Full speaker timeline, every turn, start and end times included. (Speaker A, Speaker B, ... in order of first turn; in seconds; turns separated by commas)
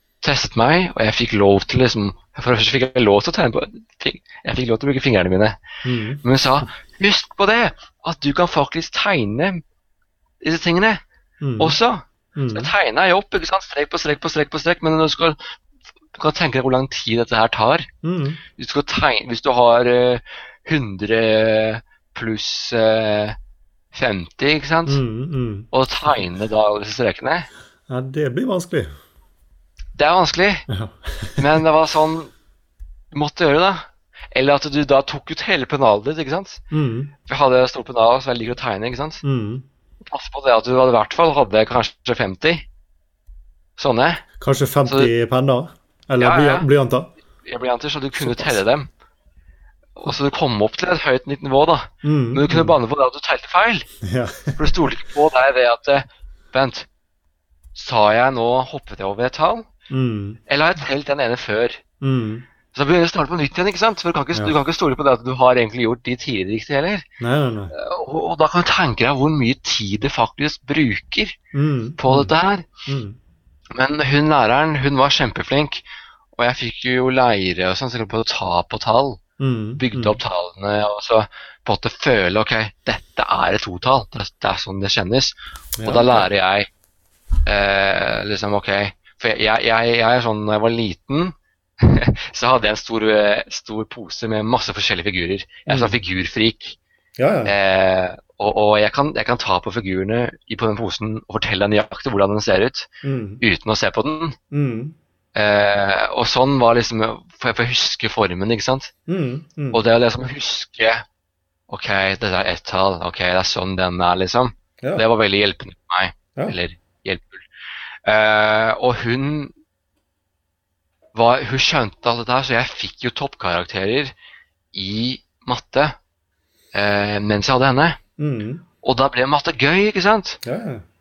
Speaker A: 0.2-5.6, Speaker B: 5.8-6.2, Speaker A: 6.2-9.6, Speaker A: 10.4-11.0, Speaker B: 11.4-11.8, Speaker A: 11.6-15.4, Speaker B: 12.3-12.7, Speaker A: 16.1-17.9, Speaker B: 18.0-18.4, Speaker A: 18.5-23.4, Speaker A: 23.9-25.0, Speaker B: 24.9-25.7, Speaker A: 25.7-27.5, Speaker B: 27.9-28.9, Speaker A: 29.9-30.7, Speaker B: 30.7-31.4, Speaker A: 31.4-32.3, Speaker A: 33.1-36.6, Speaker B: 36.7-37.1, Speaker A: 37.3-39.2, Speaker B: 39.2-39.6, Speaker A: 40.0-42.6, Speaker A: 43.8-44.2, Speaker B: 44.4-47.1, Speaker A: 44.9-45.1, Speaker A: 46.2-46.7, Speaker A: 47.4-48.9, Speaker B: 48.2-48.6, Speaker A: 50.0-53.9, Speaker B: 52.0-52.8, Speaker B: 54.0-54.6, Speaker A: 54.5-56.9, Speaker A: 57.7-59.7, Speaker B: 59.9-60.4, Speaker A: 60.5-61.8, Speaker B: 62.0-62.5, Speaker A: 62.7-67.1, Speaker B: 67.2-67.7, Speaker A: 67.7-71.4, Speaker B: 71.5-72.3, Speaker A: 72.0-72.7, Speaker B: 72.9-73.2, Speaker A: 73.7-79.2, Speaker B: 79.4-80.2, Speaker A: 79.8-86.7, Speaker B: 85.8-86.3, Speaker A: 87.4-96.8, Speaker B: 95.7-96.0, Speaker B: 97.2-97.5, Speaker A: 97.4-102.9, Speaker B: 103.0-103.4, Speaker A: 103.4-104.4, Speaker B: 104.5-104.9, Speaker A: 105.3-108.9, Speaker B: 109.1-109.8, Speaker A: 109.7-111.0, Speaker A: 111.7-117.4, Speaker A: 118.0-119.5, Speaker A: 121.1-124.1, Speaker A: 124.7-126.0, Speaker A: 126.7-128.0, Speaker B: 128.2-128.6, Speaker A: 128.8-130.4, Speaker B: 130.4-130.8